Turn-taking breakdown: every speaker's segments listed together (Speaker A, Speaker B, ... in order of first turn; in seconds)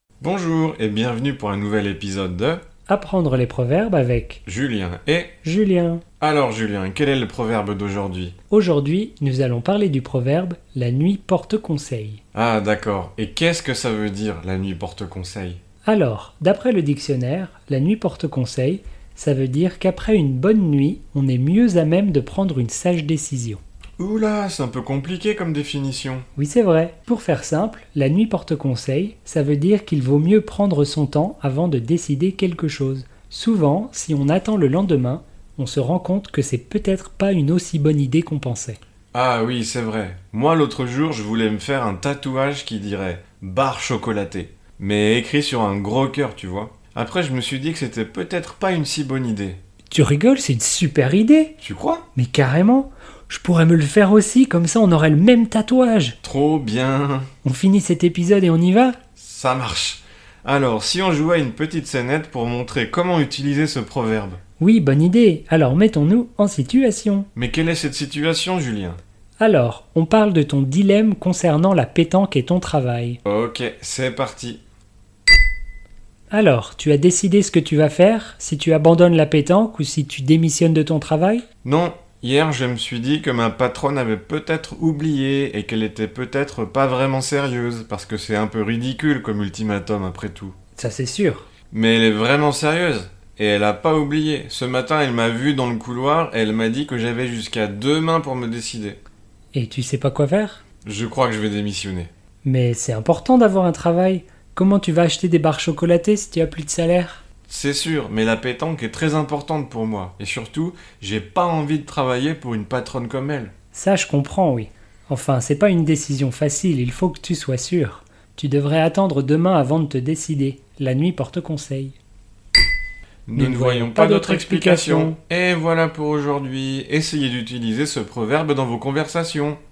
Speaker A: 0.2-2.6, 4.5-5.3, 6.2-8.3, 12.3-15.6, 24.0-26.3, 39.1-49.6, 51.6-52.0, 56.2-57.3, 59.2-64.4, 67.3-69.0, 73.2-74.6, 81.6-90.5, 91.7-99.0, 100.8-102.1, 107.5-113.5, 123.3-129.6
Speaker B: 2.9-4.4, 5.4-6.0, 8.5-12.2, 15.8-23.6, 26.4-38.8, 49.9-51.5, 52.2-56.2, 57.4-59.0, 64.6-67.3, 69.4-73.2, 76.3-81.5, 90.8-91.5, 99.5-100.6, 102.5-107.2, 113.7-122.0, 123.4-125.2